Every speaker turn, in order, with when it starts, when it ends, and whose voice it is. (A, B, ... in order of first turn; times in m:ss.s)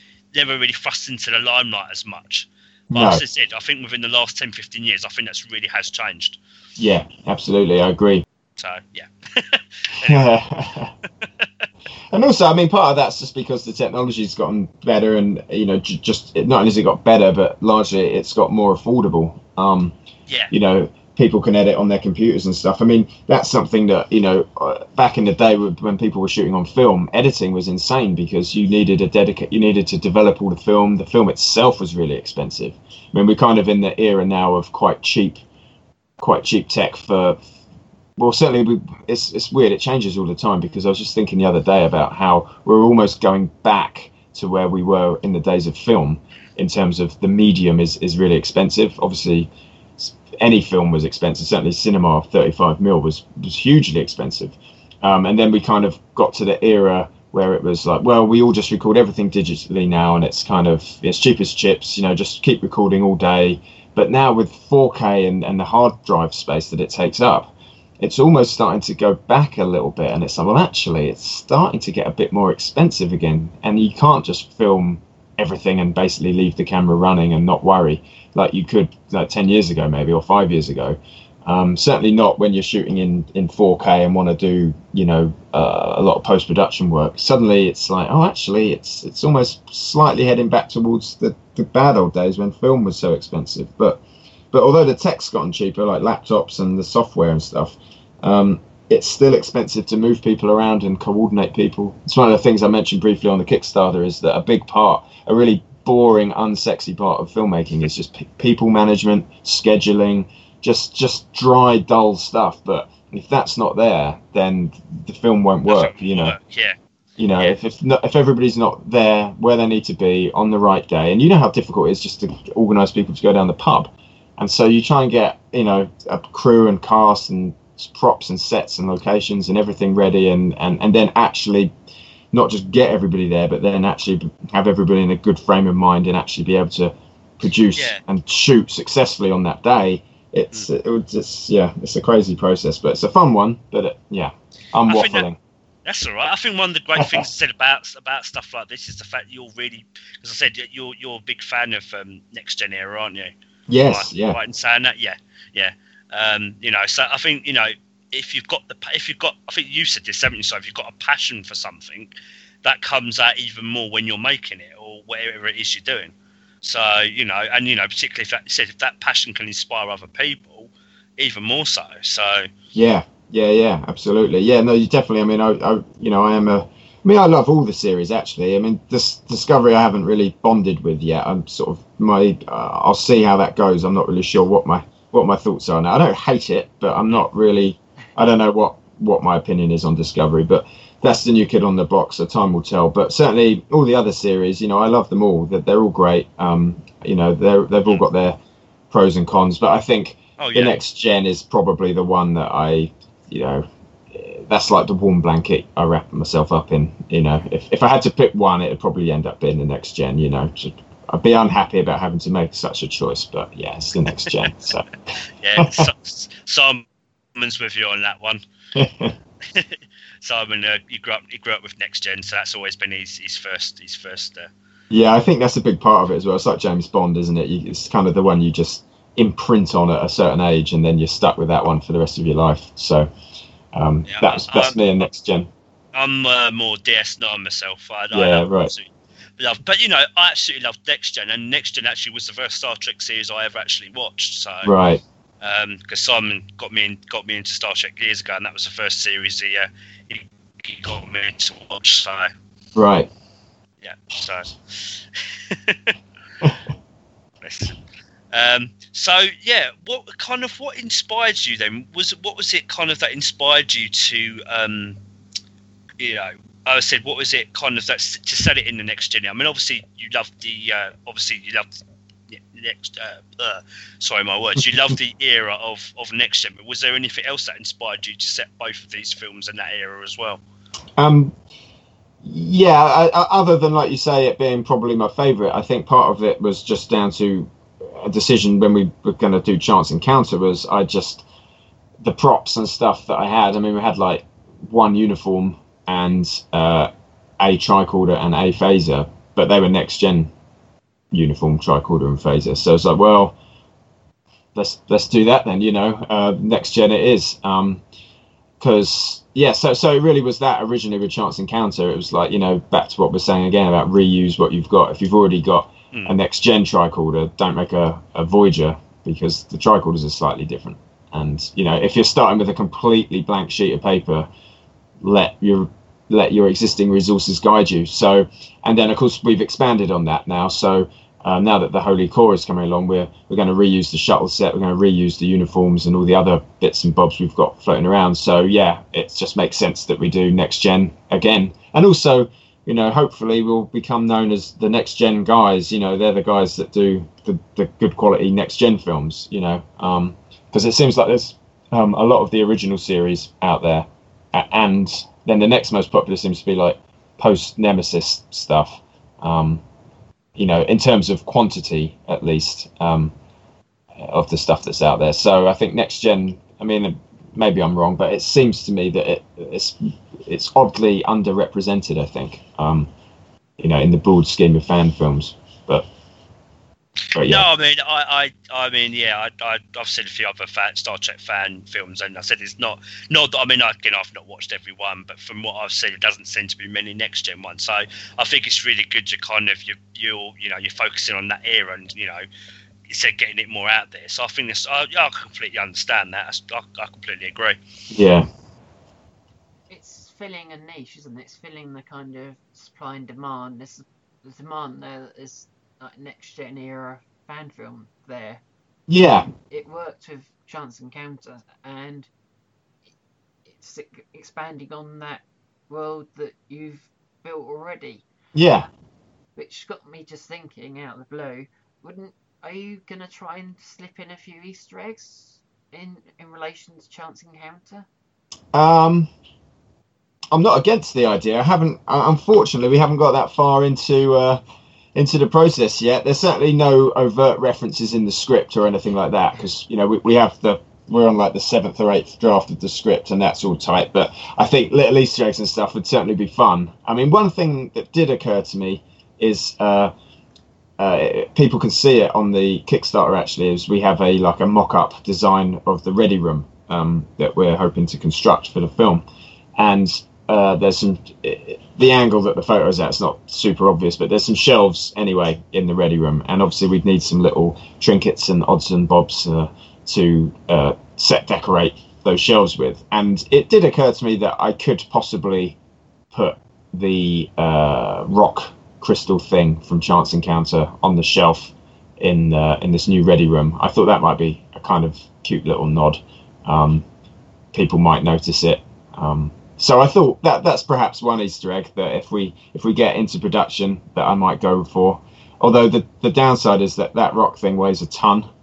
0:00.3-0:06.4 A
0:02.9-0:03.2 B
0:06.8-0:08.2 B
0:08.6-0:10.2 A
0:10.0-0:10.9 B
0:11.1-0:11.6 A
0:12.1-0:19.9 B
0:20.5-0:35.4 B
0:36.2-0:37.4 B
0:38.2-1:56.3 B
1:55.7-1:56.8 A
1:57.2-2:11.7 B
2:12.3-2:25.4 B
2:17.7-2:18.0 A
2:24.9-2:25.3 A
2:25.8-2:33.3 A
2:27.0-2:27.2 B
2:33.7-2:34.4 B
2:33.8-2:42.1 A
2:42.6-2:52.5 A
2:52.7-3:18.4 B
3:18.9-3:34.9 B
3:20.4-3:20.8 A
3:34.2-3:34.5 A
3:35.4-3:36.8 A
3:35.6-3:35.9 B
3:37.4-3:38.4 A
3:38.7-3:39.1 B
3:39.4-3:44.5 A
3:44.9-3:53.1 B
3:53.7-3:55.5 B
3:54.0-3:54.8 A
3:55.9-4:04.7 A
3:58.1-3:58.7 B
4:04.6-4:05.0 B
4:05.4-4:12.3 A
4:12.7-4:13.1 B
4:13.8-4:16.0 A
4:17.4-4:17.8 A
4:18.3-4:25.0 A
4:26.0-4:40.4 A
4:41.0-4:41.3 B
4:42.2-4:51.2 B
4:52.0-5:00.3 B
5:01.1-5:03.4 B
5:04.5-5:07.8 B
5:08.6-5:24.3 B
5:25.0-5:59.6 B
6:00.4-6:03.1 B
6:04.0-6:12.9 B
6:13.6-6:15.9 B
6:17.1-6:17.4 B
6:17.1-6:32.2 A
6:32.9-6:37.6 A
6:37.9-6:38.2 B
6:39.7-6:48.4 C
6:48.9-6:49.3 B
6:49.3-6:52.1 C
6:53.4-6:58.7 C
6:58.3-6:58.7 B
6:59.4-7:07.9 C
7:08.5-7:09.1 B
7:10.3-7:14.4 B
7:14.9-7:29.9 B
7:30.8-7:39.0 B
7:39.6-7:55.6 B
7:56.1-8:06.8 B
8:07.5-8:18.3 B